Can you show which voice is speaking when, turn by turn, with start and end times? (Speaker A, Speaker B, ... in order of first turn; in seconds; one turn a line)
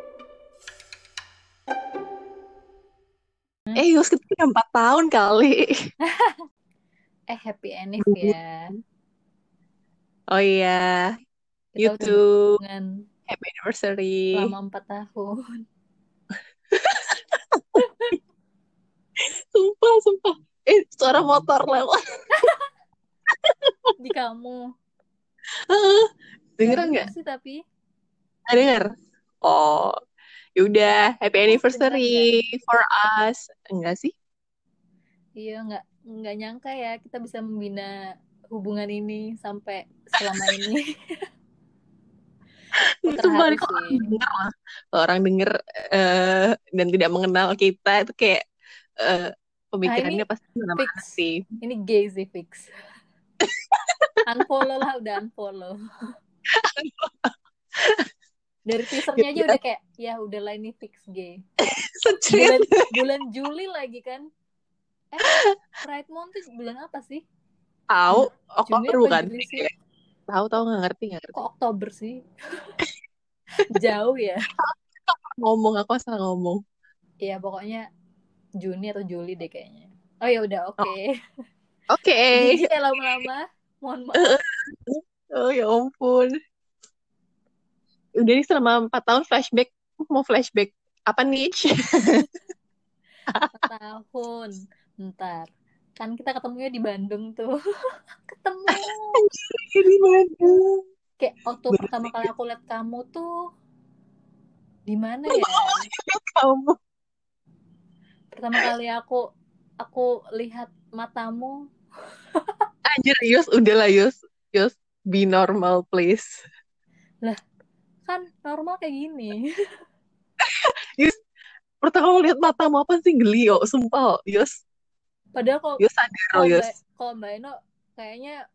Speaker A: 3.8-5.7
Speaker B: 6.0-6.4
Speaker B: 7.3-8.7
Speaker A: 8.0-8.3
Speaker A: 10.3-11.1
Speaker B: 11.7-12.9
Speaker A: 11.8-12.6
Speaker A: 13.3-14.5
Speaker B: 14.3-15.3
Speaker A: 16.7-18.1
Speaker B: 17.8-18.1
Speaker A: 19.5-22.0
Speaker B: 24.0-24.6
Speaker A: 25.7-27.1
Speaker B: 26.6-27.6
Speaker A: 28.5-28.9
Speaker A: 29.4-29.9
Speaker A: 30.6-34.1
Speaker B: 31.4-32.3
Speaker B: 35.4-37.9
Speaker B: 38.5-40.9
Speaker A: 42.8-48.4
Speaker B: 43.0-44.1
Speaker A: 49.0-51.4
Speaker B: 49.9-50.2
Speaker B: 50.8-52.7
Speaker A: 53.4-53.9
Speaker B: 54.2-55.8
Speaker A: 56.6-58.0
Speaker B: 58.6-61.4
Speaker A: 59.1-59.6
Speaker A: 61.6-62.9
Speaker B: 62.3-64.2
Speaker B: 65.1-67.2
Speaker A: 67.9-69.7
Speaker B: 68.1-69.6
Speaker A: 70.3-71.4
Speaker B: 71.3-72.2
Speaker B: 73.7-74.4
Speaker A: 74.6-76.6
Speaker B: 77.2-77.8
Speaker B: 78.6-81.1
Speaker A: 81.9-82.6
Speaker B: 82.3-84.3
Speaker A: 84.2-86.3
Speaker A: 88.2-92.3
Speaker A: 93.3-93.6
Speaker B: 93.5-97.5
Speaker B: 98.3-99.2
Speaker A: 98.7-100.8
Speaker B: 101.2-103.3
Speaker A: 101.7-102.3
Speaker B: 104.9-105.8
Speaker A: 105.3-106.8
Speaker B: 108.3-109.2
Speaker B: 109.8-111.6
Speaker B: 112.3-112.6
Speaker A: 112.9-116.3
Speaker B: 118.1-119.4
Speaker A: 120.5-121.2
Speaker A: 121.8-124.5
Speaker B: 125.3-125.8
Speaker A: 125.8-126.7
Speaker B: 126.3-128.3